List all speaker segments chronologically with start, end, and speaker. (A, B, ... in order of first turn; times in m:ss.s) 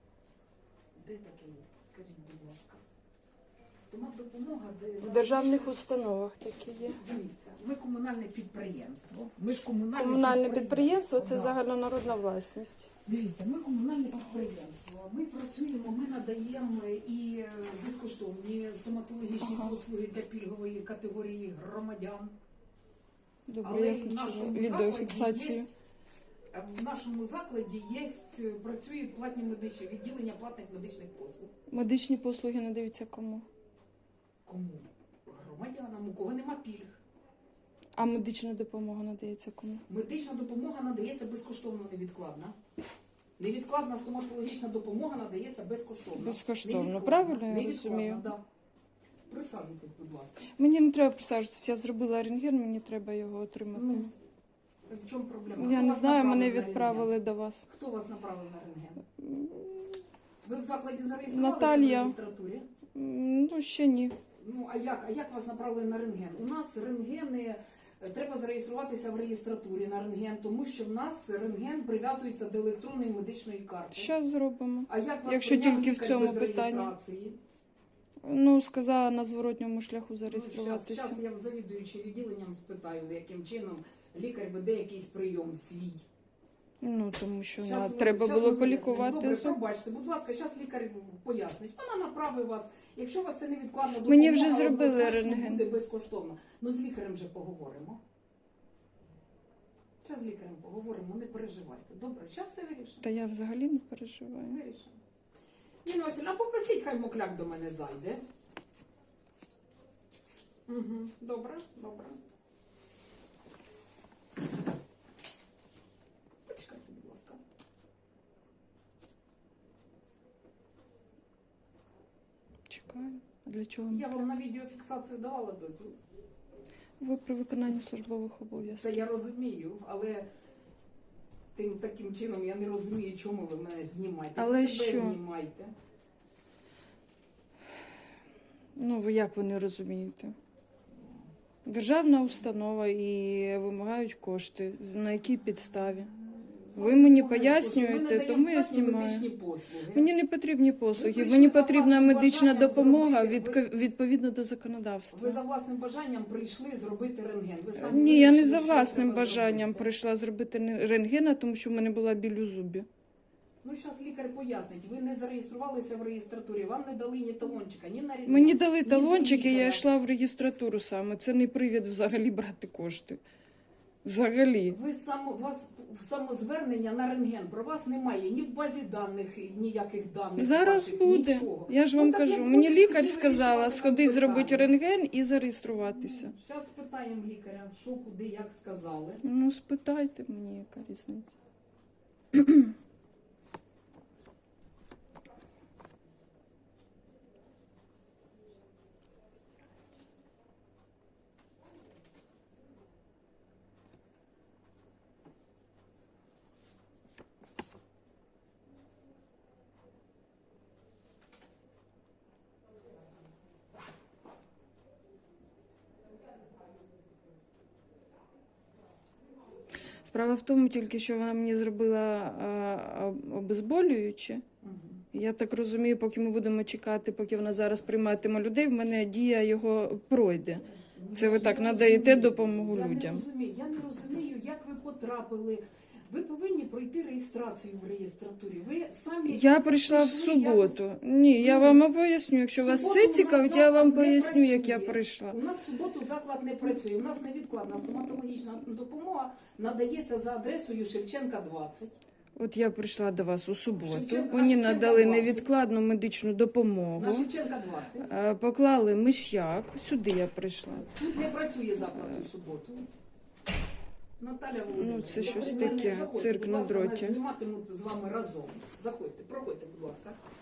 0:01.0-0:02.8 A
0:03.8-0:05.8 A
0:05.0-0:07.0 B
0:06.9-0:11.6 A
0:10.0-0:12.9 B
0:13.1-0:22.3 A
0:19.4-0:19.8 B
0:23.5-0:25.7 B
0:23.6-0:25.7 A
0:26.5-0:31.5 A
0:31.7-0:33.5 B
0:34.4-0:37.0 A
0:38.0-0:39.8 B
0:39.9-0:42.6 A
0:43.4-0:48.4 A
0:46.2-0:48.3 B
0:49.3-0:50.5 A
0:50.6-0:54.1 B
0:53.7-0:54.1 A
0:54.9-0:57.1 A
0:55.6-0:57.7 B
0:57.7-0:59.0 A
0:59.2-1:00.0 B
1:00.4-1:02.7 A
1:01.3-1:02.2 B
1:03.0-1:04.2 B
1:04.4-1:14.1 A
1:14.0-1:16.9 B
1:14.9-1:17.4 A
1:18.2-1:21.2 B
1:20.3-1:26.0 A
1:26.8-1:29.6 B
1:27.6-1:38.0 A
1:34.0-1:35.6 B
1:40.0-1:43.0 A
1:43.0-1:44.6 B
1:44.4-1:45.0 A
1:45.8-1:48.2 A
1:50.7-1:52.2 A
1:56.5-1:57.4 A
2:02.7-2:04.2 B
2:03.9-2:06.0 A
2:07.0-2:09.0 B
2:08.8-2:10.3 A
2:11.6-2:15.7 A
2:14.4-2:15.2 B
2:18.8-2:20.3 B
2:21.7-2:26.1 B
2:26.2-2:30.1 A
2:26.8-2:29.3 B
2:29.9-2:35.4 B
2:31.0-2:33.6 A
2:35.1-2:39.9 A
2:37.8-2:42.9 B
2:43.6-2:49.9 A
2:48.3-2:53.2 B
2:54.0-2:54.8 B
2:54.7-3:04.7 A
3:00.4-3:06.3 B
3:05.9-3:09.2 A
3:09.2-3:11.4 B
3:12.3-3:12.7 B
3:40.0-3:44.4 B
3:44.6-3:45.0 A
3:45.1-3:53.2 B
3:50.8-4:00.8 A
3:59.3-4:05.4 B
4:01.4-4:01.8 A
4:02.6-4:11.9 A
4:12.4-4:17.3 B
4:13.8-4:15.4 A
4:17.0-4:18.1 A
4:18.0-4:20.9 B
4:20.8-4:22.9 A
4:22.0-4:22.2 B
4:24.2-4:30.2 A
4:24.7-4:27.2 B